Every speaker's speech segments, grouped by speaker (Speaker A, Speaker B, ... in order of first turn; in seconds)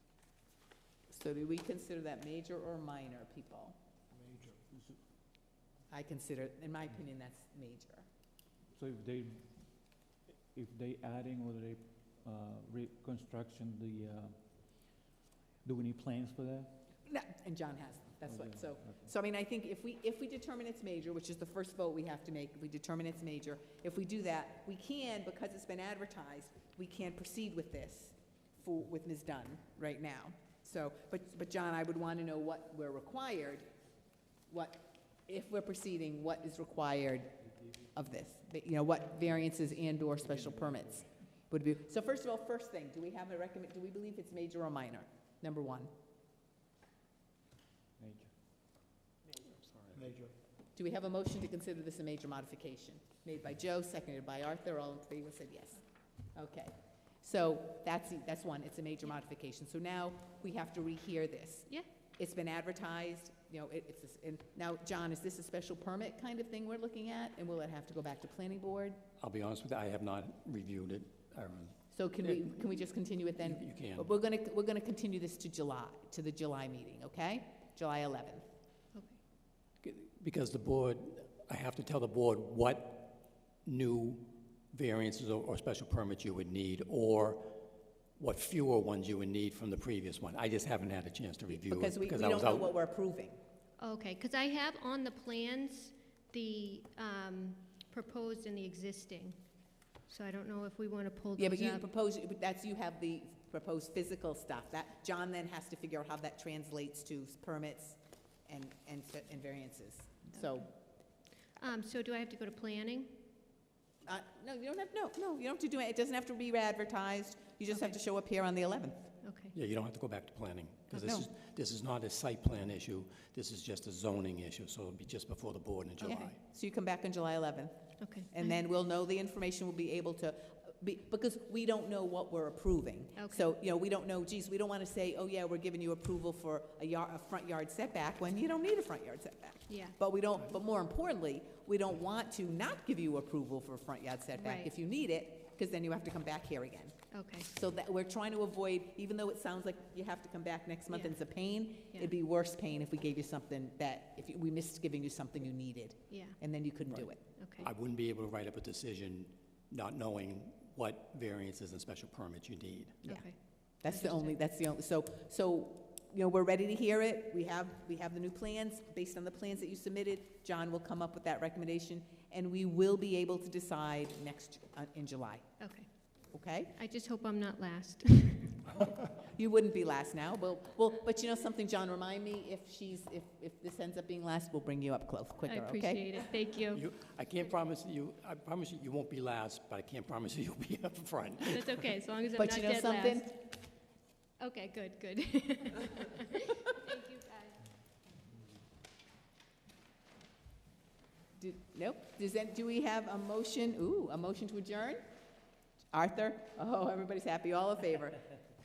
Speaker A: 1.1-3.8, 5.9-8.1, 17.1-33.7, 34.5-37.3, 37.9-45.9, 50.8-55.8, 56.4-69.0, 71.9-78.4, 91.5-93.4, 101.4-110.7, 114.0-119.1, 120.9-121.3, 126.0-127.7, 128.3-146.9, 147.4-157.2, 163.8-175.6, 176.3-176.7, 179.2-186.2, 192.4-193.3, 201.4-205.0, 205.9-208.2
Speaker B: 8.7-9.6, 10.5-14.3, 15.6-16.7, 18.3-19.1, 48.0-48.3
Speaker C: 49.4-50.2, 69.2-72.5, 73.4-74.1, 79.8-92.7, 119.5-126.4, 157.6-163.2, 186.7-191.8
Speaker D: 78.9-79.2, 93.8-99.4, 100.1-101.8, 111.5-113.2, 119.2-119.5, 128.0-128.6, 133.2-133.5, 139.7-140.0, 144.4-144.7, 147.1-147.5, 156.1-156.4, 157.4-157.7, 163.1-164.4, 175.6-175.9, 176.8-178.7, 185.5-186.8, 191.5-193.4, 194.4-197.7